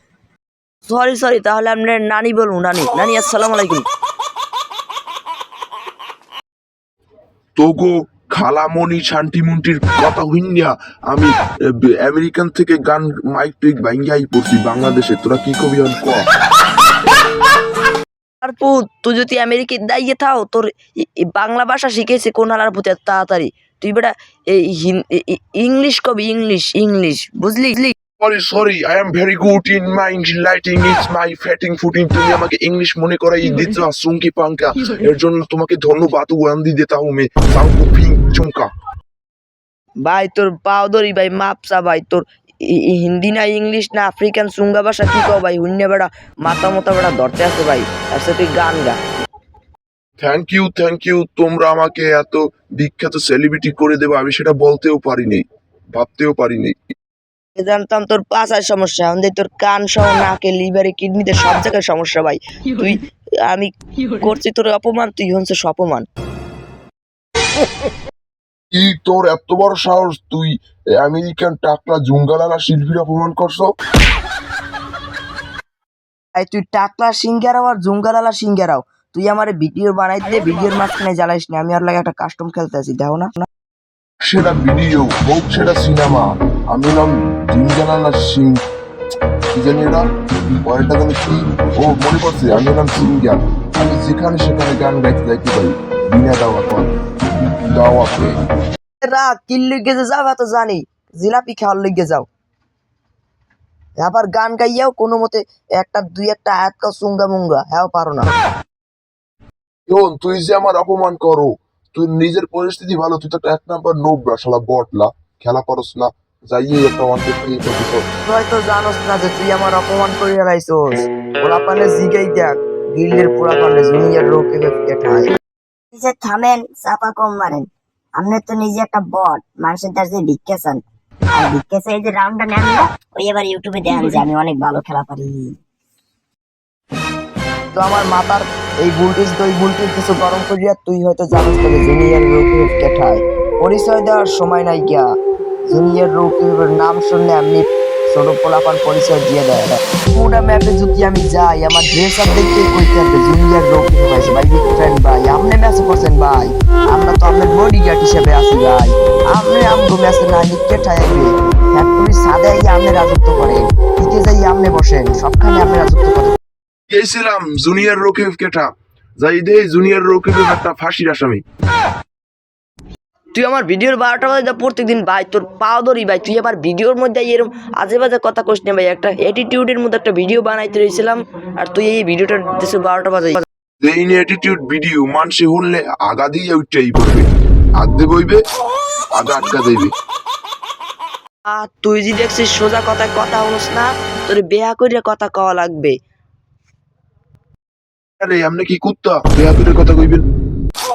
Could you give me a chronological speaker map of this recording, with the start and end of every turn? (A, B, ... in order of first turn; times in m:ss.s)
0:00.9-0:03.8 A
0:07.6-0:16.2 B
0:18.4-0:20.7 A
0:21.2-0:27.9 A
0:28.2-0:38.7 B
0:40.0-0:49.0 A
0:50.2-0:56.9 B
0:57.6-1:06.1 A
1:08.7-1:13.7 B
1:16.3-1:23.5 A
1:24.2-1:28.6 B
1:29.5-1:38.4 B
1:39.0-1:42.2 A
1:44.0-1:48.3 A
1:49.9-1:58.0 B
1:58.2-2:05.3 A
2:05.9-2:10.8 C
2:11.3-2:15.5 C
2:17.7-2:25.0 A
2:25.7-2:46.4 A
2:46.9-2:51.4 B
2:53.3-3:03.4 A
3:03.8-3:07.2 B
3:07.8-3:08.4 B
3:09.2-3:09.9 B
3:11.5-3:15.9 A
3:18.2-3:20.2 B